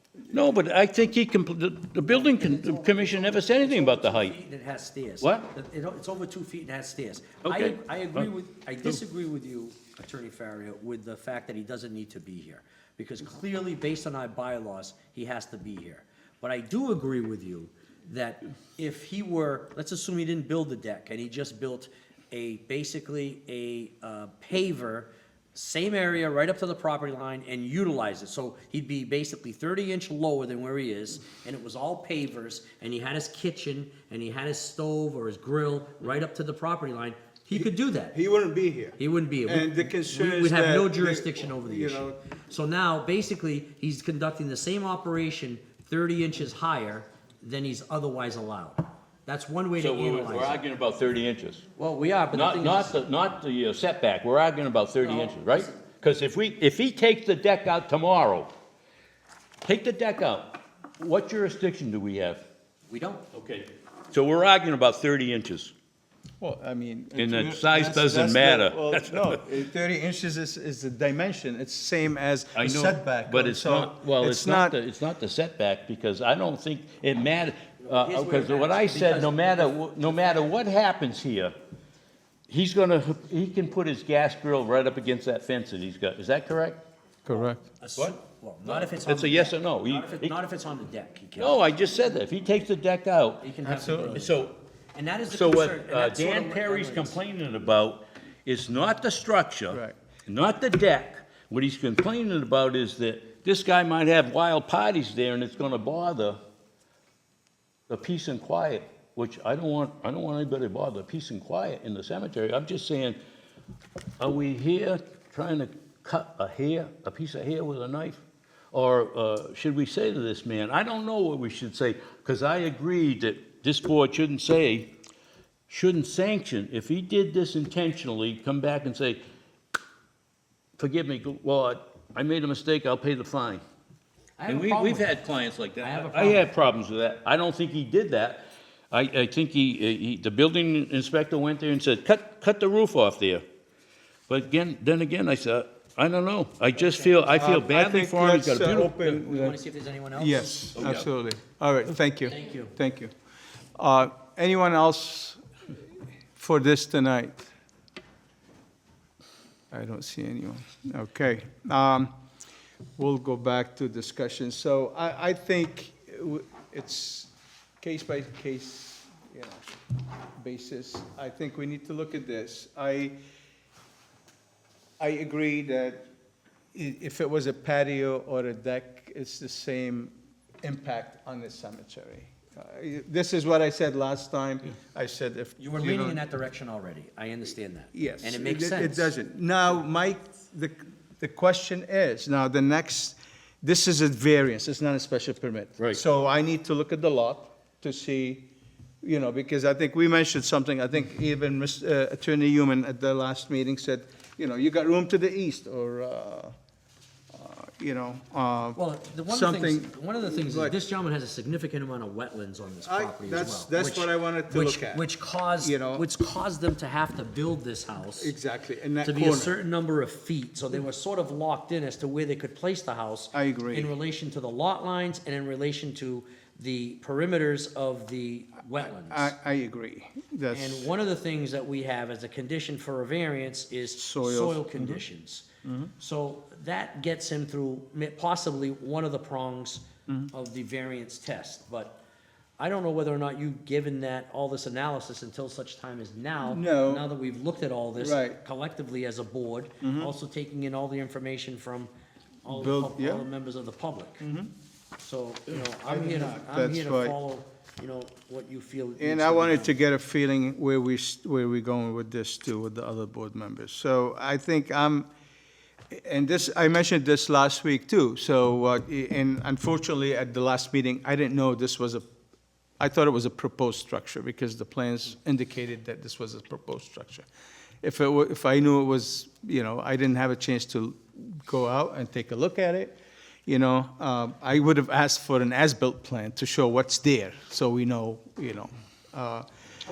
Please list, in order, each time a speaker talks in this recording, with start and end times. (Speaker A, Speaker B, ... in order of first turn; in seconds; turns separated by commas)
Speaker A: 0.3-4.3, Speaker B: 2.0-38.2, Speaker A: 5.2-5.5, Speaker A: 7.4-8.3, Speaker C: 37.5-42.2, Speaker B: 39.0-50.6, Speaker A: 49.8-51.6, Speaker B: 51.8-53.0, Speaker A: 52.3-58.5, Speaker B: 55.0-55.8, Speaker A: 59.6-62.4, Speaker B: 62.9-63.3, Speaker A: 63.3-65.7, Speaker C: 66.4-74.8, Speaker A: 67.2-69.5, Speaker A: 72.5-81.5, Speaker B: 77.8-79.7, Speaker A: 82.5-86.8, Speaker C: 87.3-87.6, Speaker B: 87.8-91.6, Speaker A: 88.0-90.4, Speaker A: 91.4-93.5, Speaker B: 93.4-97.2, Speaker C: 93.6-94.3, Speaker A: 94.1-94.5, Speaker A: 95.3-106.4, Speaker C: 99.7-100.0, Speaker A: 107.9-113.2, Speaker A: 114.2-118.2, Speaker A: 118.7-124.9, Speaker A: 125.7-129.2, Speaker A: 130.8-133.6, Speaker B: 134.4-135.2, Speaker A: 134.5-143.4, Speaker B: 135.8-136.5, Speaker A: 144.3-149.2, Speaker B: 146.8-147.1, Speaker C: 147.2-149.6, Speaker B: 149.2-150.9, Speaker C: 150.2-153.1, Speaker A: 150.8-151.1, Speaker B: 152.3-152.8, Speaker C: 153.8-155.4, Speaker C: 156.4-157.5, Speaker C: 159.7-162.1, Speaker C: 163.0-169.7, Speaker C: 170.4-173.2, Speaker C: 175.0-176.0, Speaker C: 176.7-186.2, Speaker B: 185.6-189.2, Speaker C: 187.9-198.5, Speaker C: 199.0-206.5, Speaker C: 207.3-210.8, Speaker B: 208.7-218.4, Speaker C: 212.8-215.1, Speaker C: 215.6-216.1, Speaker C: 218.2-219.6, Speaker B: 219.0-229.3, Speaker C: 223.3-223.9, Speaker C: 228.8-230.9, Speaker B: 230.5-242.0, Speaker C: 233.9-235.0, Speaker C: 235.7-235.9, Speaker B: 242.6-251.9, Speaker C: 246.4-247.1, Speaker C: 248.0-248.4, Speaker C: 249.8-250.1, Speaker B: 252.4-254.3, Speaker C: 252.4-253.3, Speaker C: 254.2-254.5, Speaker B: 255.0-259.8, Speaker C: 255.8-257.2, Speaker C: 259.0-265.1, Speaker C: 265.9-272.1, Speaker C: 272.8-277.3, Speaker C: 277.8-289.4